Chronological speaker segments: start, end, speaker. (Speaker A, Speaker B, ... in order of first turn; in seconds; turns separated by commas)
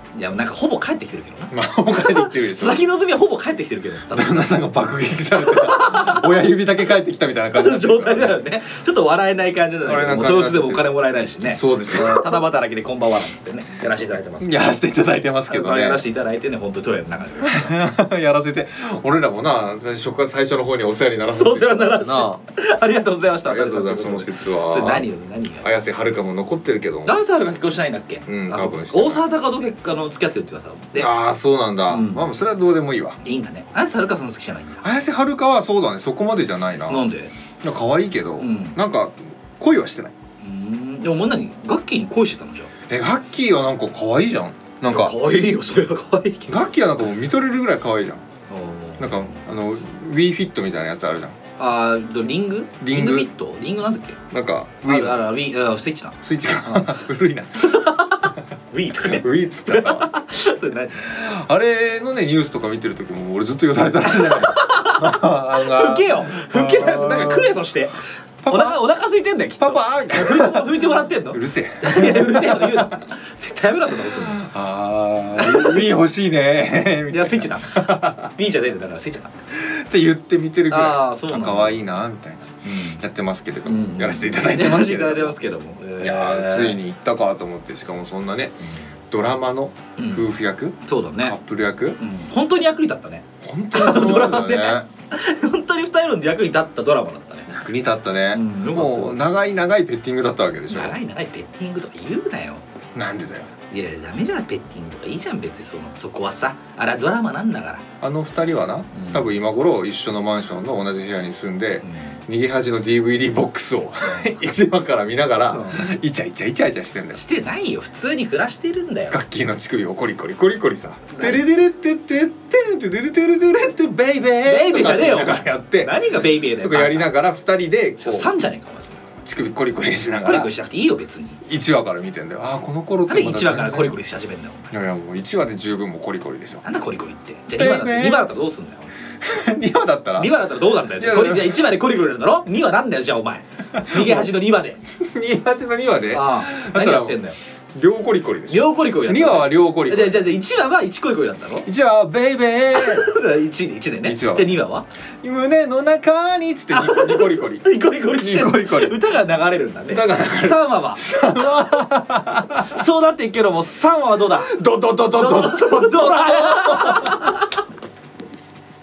Speaker A: 0.1-4.5, Speaker B: 1.5-2.8, Speaker B: 4.1-8.4, Speaker A: 5.4-6.3, Speaker A: 7.5-14.7, Speaker B: 9.8-12.4, Speaker B: 14.4-16.0, Speaker A: 15.5-17.8, Speaker B: 17.4-22.4, Speaker A: 21.3-25.6, Speaker B: 23.4-25.1, Speaker B: 25.6-27.2, Speaker A: 27.0-31.1, Speaker B: 28.2-29.2, Speaker B: 30.9-33.2, Speaker A: 31.9-32.3, Speaker A: 33.2-34.8, Speaker B: 34.8-37.0, Speaker A: 36.9-37.3, Speaker B: 37.6-40.1, Speaker A: 38.4-38.8, Speaker A: 40.4-42.7, Speaker B: 42.9-45.1, Speaker A: 44.9-46.6, Speaker B: 46.5-48.2, Speaker A: 48.5-49.2, Speaker B: 49.0-51.4, Speaker A: 51.6-54.2, Speaker B: 52.8-53.3, Speaker B: 54.3-55.3, Speaker A: 54.8-57.0, Speaker B: 56.2-58.0, Speaker A: 57.6-61.1, Speaker B: 59.0-60.1, Speaker B: 61.0-67.6, Speaker A: 64.0-74.4, Speaker B: 68.4-68.8, Speaker B: 69.6-72.9, Speaker B: 74.1-78.3, Speaker A: 75.3-75.9, Speaker A: 77.1-79.3, Speaker B: 79.5-85.4, Speaker A: 80.7-81.8, Speaker A: 82.6-83.0, Speaker A: 83.7-86.8, Speaker B: 86.0-92.0, Speaker A: 90.0-90.3, Speaker A: 90.8-91.3, Speaker A: 92.0-97.5, Speaker B: 93.4-94.8, Speaker B: 97.5-100.9, Speaker A: 98.3-99.2, Speaker A: 100.7-102.6, Speaker B: 102.9-103.5, Speaker A: 103.7-107.8, Speaker B: 108.0-117.2, Speaker A: 108.9-109.3, Speaker A: 111.8-112.1, Speaker A: 115.5-115.8, Speaker A: 117.1-119.2, Speaker B: 119.1-126.0, Speaker A: 121.1-121.4, Speaker A: 124.4-127.1, Speaker B: 126.5-128.3, Speaker A: 128.0-129.0, Speaker B: 129.2-130.5, Speaker A: 130.2-131.4, Speaker B: 131.4-133.9, Speaker A: 133.1-134.7, Speaker B: 134.7-136.6, Speaker A: 136.6-138.9, Speaker B: 137.6-138.3, Speaker B: 139.2-140.3, Speaker A: 140.2-144.8, Speaker B: 141.0-141.6, Speaker B: 143.8-144.3, Speaker B: 144.9-147.2, Speaker A: 146.1-147.4, Speaker B: 147.7-150.3, Speaker A: 148.5-151.7, Speaker B: 151.6-153.1, Speaker A: 152.7-154.8, Speaker B: 154.0-154.6, Speaker B: 155.2-159.0, Speaker A: 156.7-161.0, Speaker B: 159.9-162.7, Speaker A: 162.6-164.5, Speaker B: 164.4-167.3, Speaker A: 165.1-167.5